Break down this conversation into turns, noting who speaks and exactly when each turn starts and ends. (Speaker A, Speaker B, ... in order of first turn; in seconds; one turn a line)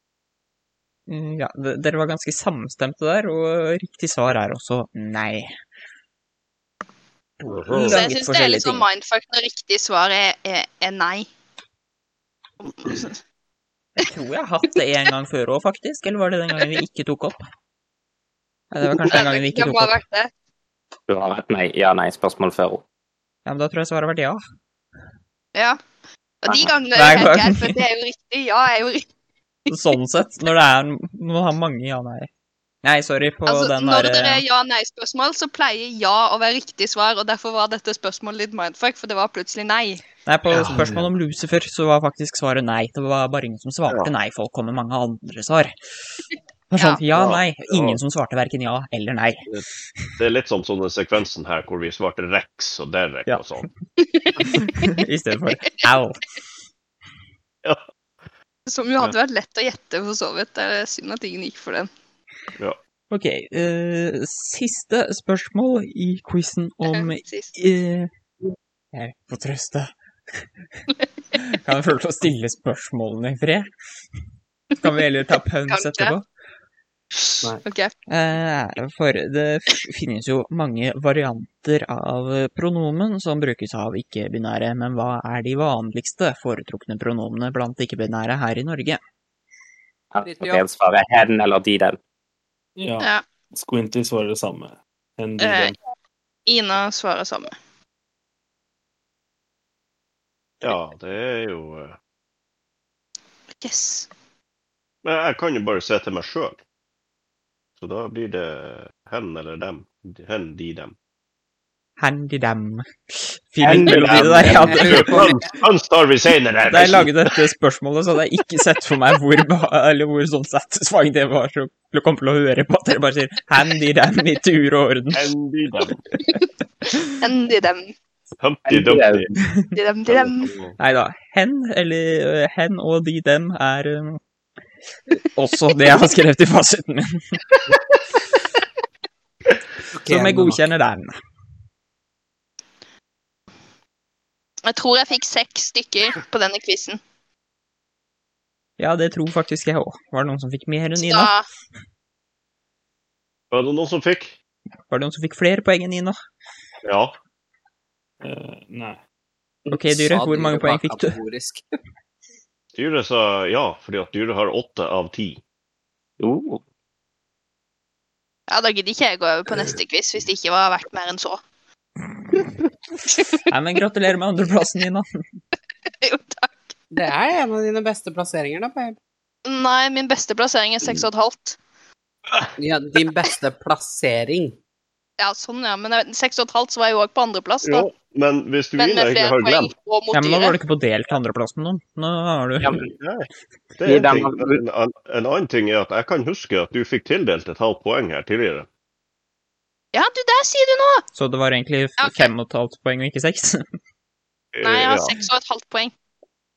Speaker A: 1.1-5.5
Speaker B: 7.5-7.9
Speaker A: 7.7-8.8
Speaker C: 7.8-11.3
Speaker C: 12.6-13.1
Speaker A: 14.0-17.4
Speaker A: 18.7-20.0
Speaker C: 19.0-20.3
Speaker D: 21.1-22.8
Speaker A: 23.4-24.4
Speaker C: 25.5-25.8
Speaker C: 26.4-29.1
Speaker A: 26.9-27.8
Speaker A: 29.7-32.3
Speaker A: 32.8-34.4
Speaker C: 33.5-40.0
Speaker A: 40.2-49.5
Speaker B: 40.5-41.0
Speaker C: 46.8-47.0
Speaker B: 47.1-48.0
Speaker B: 50.2-53.7
Speaker C: 54.0-54.6
Speaker A: 54.4-56.2
Speaker C: 58.7-61.9
Speaker A: 63.1-68.1
Speaker C: 66.9-67.5
Speaker A: 68.9-73.7
Speaker A: 74.8-76.2
Speaker C: 75.7-76.1
Speaker C: 77.1-77.9
Speaker A: 78.1-89.0
Speaker D: 90.1-92.0
Speaker E: 90.2-90.6
Speaker F: 92.8-95.7
Speaker C: 93.0-93.2
Speaker C: 95.4-95.7
Speaker C: 96.5-97.5
Speaker B: 100.6-102.0
Speaker C: 103.6-104.1
Speaker B: 105.0-106.6
Speaker B: 107.8-110.9
Speaker A: 112.0-115.3
Speaker B: 113.6-117.3
Speaker E: 113.6-115.6
Speaker A: 116.7-125.3
Speaker B: 125.1-126.0
Speaker C: 127.2-127.9
Speaker B: 128.4-129.3
Speaker D: 128.7-129.3
Speaker A: 129.4-129.7
Speaker C: 129.7-130.5
Speaker B: 130.1-130.8
Speaker A: 130.8-134.2
Speaker A: 135.3-137.4
Speaker E: 139.9-140.6
Speaker A: 140.1-141.2
Speaker C: 144.6-147.0
Speaker A: 148.8-151.3
Speaker C: 150.9-151.4
Speaker B: 153.5-154.3
Speaker A: 154.9-156.2
Speaker B: 156.8-157.1
Speaker F: 158.2-159.0
Speaker E: 159.7-161.6
Speaker A: 159.7-161.2
Speaker B: 162.7-165.4
Speaker D: 166.2-166.6
Speaker C: 168.5-171.4
Speaker A: 173.0-175.1
Speaker C: 176.0-176.7
Speaker E: 176.9-179.0
Speaker C: 179.4-181.6
Speaker E: 182.6-184.6
Speaker C: 185.2-187.9
Speaker B: 187.6-189.7
Speaker C: 188.8-190.6
Speaker A: 190.1-192.8
Speaker D: 192.6-192.9
Speaker B: 192.8-198.7
Speaker D: 193.8-194.6
Speaker C: 199.9-201.0
Speaker A: 201.1-203.6
Speaker C: 202.0-202.3
Speaker B: 204.5-205.2
Speaker C: 204.6-205.9